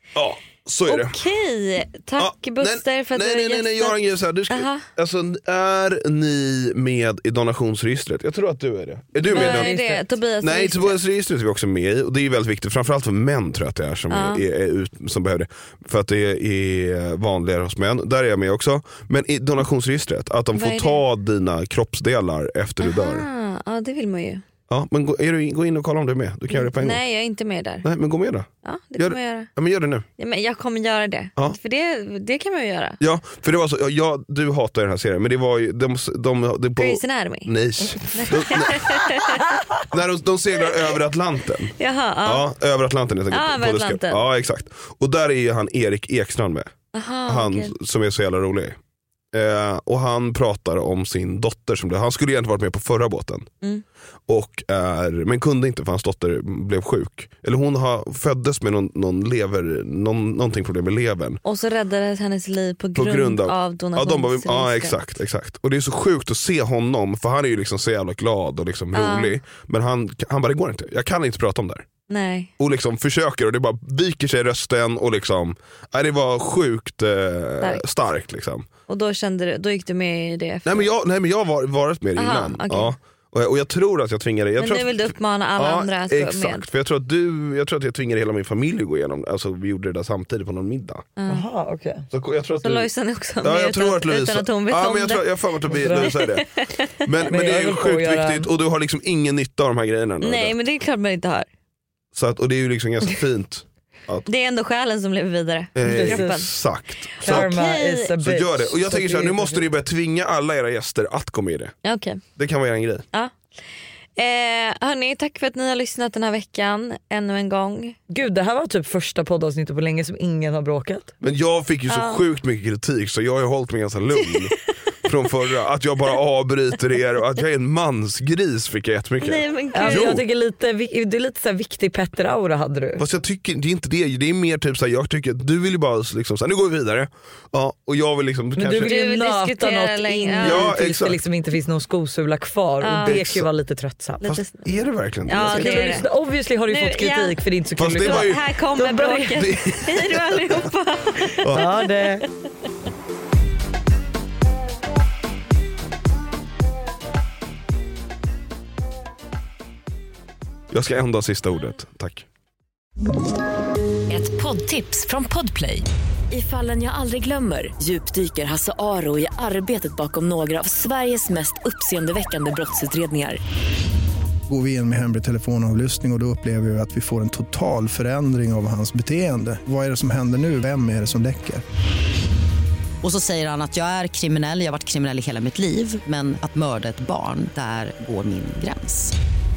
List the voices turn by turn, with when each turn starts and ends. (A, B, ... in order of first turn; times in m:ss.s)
0:00.1-0:01.2 A
0:00.9-0:04.0 B
0:02.2-0:09.8 A
0:04.5-0:04.8 B
0:09.2-0:10.0 C
0:09.3-0:11.0 B
0:10.4-0:23.2 A
0:14.1-0:14.4 B
0:20.5-0:21.0 B
0:22.8-0:24.4 B
0:24.7-0:27.0 A
0:26.5-0:27.8 B
0:27.8-0:30.0 A
0:28.6-0:29.5 B
0:30.2-0:33.0 B
0:33.0-0:39.2 A
0:36.8-0:37.5 B
0:38.0-0:39.4 B
0:39.9-0:46.7 A
0:41.8-0:42.4 B
0:43.3-0:44.2 B
0:46.9-0:47.7 B
0:47.3-0:48.8 A
0:49.3-0:53.5 A
0:54.3-1:01.4 A
1:01.4-1:05.0 B
1:03.0-1:11.8 A
1:08.9-1:09.4 B
1:12.1-1:12.5 B
1:12.6-1:18.6 A
1:18.9-1:20.9 B
1:20.6-1:31.0 A
1:22.2-1:22.9 B
1:24.6-1:26.7 B
1:31.2-1:31.4 B
1:31.3-1:32.1 C
1:32.1-1:32.9 A
1:32.6-1:37.0 B
1:33.4-1:36.5 A
1:35.7-1:36.2 C
1:37.0-1:40.5 A
1:37.2-1:38.5 C
1:40.2-1:41.5 B
1:42.1-1:44.3 A
1:44.2-1:46.5 B
1:45.8-1:47.5 A
1:45.8-1:46.4 C
1:47.1-1:48.1 B
1:47.2-1:49.6 C
1:48.2-1:51.7 A
1:51.8-1:52.2 B
1:52.4-1:53.0 A
1:54.2-1:58.0 B
1:58.1-2:01.1 C
2:01.2-2:10.2 A
2:01.9-2:02.2 B
2:09.2-2:10.2 B
2:09.7-2:13.0 C
2:13.0-2:18.9 A
2:18.6-2:24.2 C
2:18.8-2:20.7 B
2:20.4-2:21.2 A
2:22.8-2:23.2 B
2:23.0-2:23.4 A
2:24.2-2:24.6 B
2:24.2-2:26.0 A
2:25.3-2:26.1 B
2:25.4-2:29.5 C
2:26.7-2:27.4 B
2:27.8-2:28.4 A
2:28.0-2:31.8 B
2:29.3-2:30.6 A
2:31.5-2:32.2 C
2:40.7-2:42.2 A
2:44.1-2:53.4 D
2:54.5-3:01.6 E
3:03.0-3:09.1 F